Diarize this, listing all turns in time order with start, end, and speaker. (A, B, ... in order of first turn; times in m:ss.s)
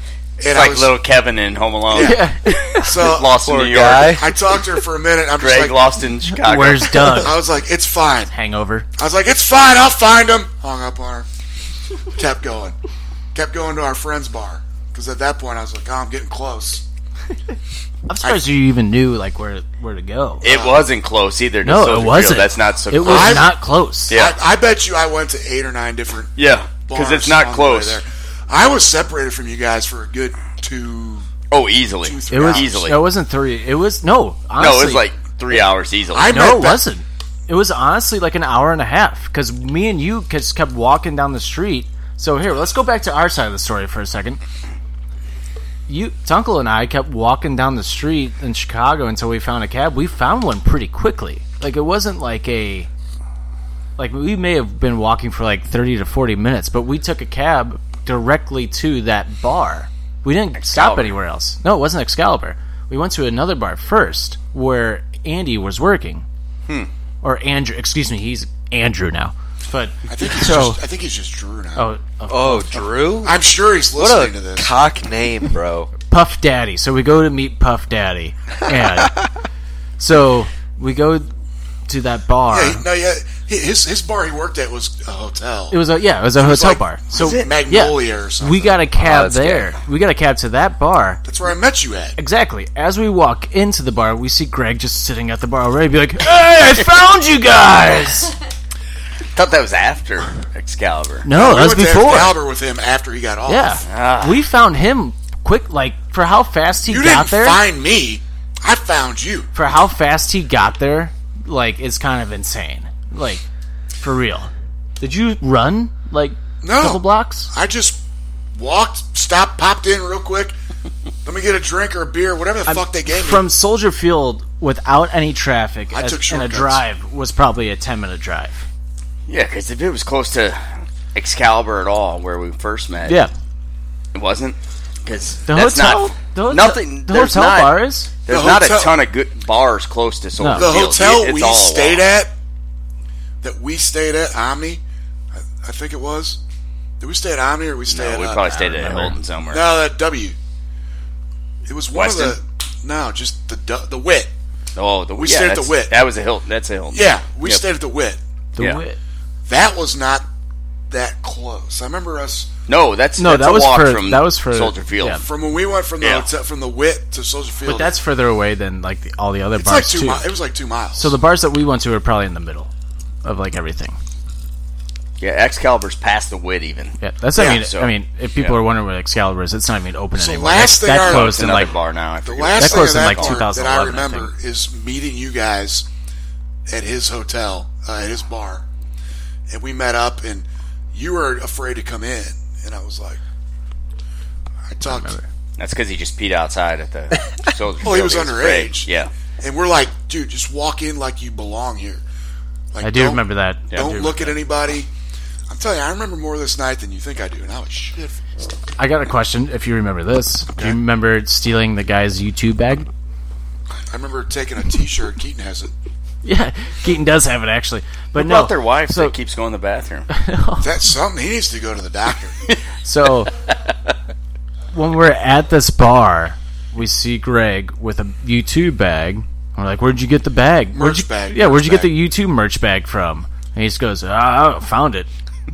0:00.4-0:00.9 A
0:00.5-0:02.2 B
0:01.9-0:02.2 A
0:02.0-0:03.0 C
0:02.8-0:03.5 A
0:03.0-0:04.2 B
0:03.4-0:04.2 D
0:04.0-0:05.9 A
0:05.4-0:07.2 B
0:06.3-0:07.4 C
0:07.1-0:08.3 A
0:08.3-0:08.9 C
0:09.0-0:11.3 A
0:12.1-0:12.8 A
0:13.3-0:16.8 A
0:18.1-0:20.4 C
0:20.4-0:23.5 B
0:20.4-0:20.9 A
0:21.6-0:24.2 C
0:23.0-0:23.6 A
0:24.1-0:24.4 B
0:24.1-0:26.3 A
0:26.4-0:28.0 B
0:26.8-0:31.3 A
0:31.5-0:33.0 B
0:32.0-0:32.9 A
0:32.3-0:35.0 C
0:34.6-0:36.3 B
0:36.1-0:36.8 A
0:36.3-0:44.4 C
0:45.9-0:52.9 C
0:54.0-1:06.2 C
1:00.5-1:01.2 B
1:07.2-1:10.8 C
1:10.1-1:11.9 A
1:11.8-1:13.0 C
1:12.3-1:13.4 D
1:13.2-1:14.7 A
1:14.0-1:15.9 D
1:16.1-1:19.1 C
1:20.0-1:21.3 C
1:21.9-1:22.8 C
1:22.5-1:25.8 A
1:25.7-1:31.2 C
1:26.4-1:28.8 A
1:27.1-1:27.5 B
1:29.0-1:29.7 D
1:31.2-1:32.2 A
1:32.2-1:38.3 C
1:39.3-1:41.2 B
1:41.2-1:42.4 C
1:41.3-1:43.8 A
1:43.5-1:47.6 C
1:43.9-1:44.4 B
1:46.9-1:49.5 A
1:49.5-1:53.4 C
1:54.0-1:57.5 C
1:56.6-1:58.0 A
1:58.5-2:00.5 A
2:01.2-2:03.5 A
2:02.6-2:08.6 C
2:05.9-2:06.8 A
2:09.3-2:10.6 B
2:11.1-2:13.2 B
2:13.0-2:13.3 C
2:14.1-2:22.0 B
2:15.5-2:18.1 C
2:18.3-2:19.0 A
2:20.4-2:20.7 C
2:20.5-2:22.3 A
2:23.4-2:24.8 A
2:25.5-2:26.4 A
2:27.0-2:28.4 A
2:27.9-2:29.6 B
2:28.4-2:29.2 C
2:29.5-2:30.4 A
2:31.7-2:34.3 A
2:31.9-2:32.4 B
2:34.8-2:37.6 B
2:35.2-2:36.0 A
2:36.9-2:38.2 A
2:38.6-2:39.0 C
2:39.5-2:40.2 A
2:40.9-2:42.5 A
2:42.7-2:45.2 B
2:43.2-2:45.2 C
2:45.2-2:48.0 A
2:46.0-2:46.3 B
2:47.6-2:50.2 C
2:49.6-2:51.1 A
2:51.0-2:52.7 C
2:53.2-2:54.0 C
2:55.2-2:57.0 B
2:57.0-3:01.8 C
2:57.4-2:57.6 A
2:57.5-2:58.6 B
3:00.2-3:01.7 A
3:00.9-3:03.4 B
3:02.2-3:05.9 A
3:02.6-3:04.3 C
3:06.7-3:08.6 A
3:09.5-3:13.2 A
3:14.7-3:15.1 A
3:14.8-3:15.2 C
3:15.6-3:19.1 B
3:17.8-3:18.9 A
3:19.4-3:22.0 A
3:22.7-3:24.9 A
3:22.8-3:24.4 C
3:25.5-3:28.2 A
3:28.8-3:32.9 C
3:33.9-3:35.7 A
3:36.2-3:39.1 C
3:38.2-3:40.1 B
3:40.1-3:40.7 C
3:40.6-3:42.3 A
3:42.8-3:43.3 C
3:44.7-3:55.1 C
3:50.7-3:51.9 A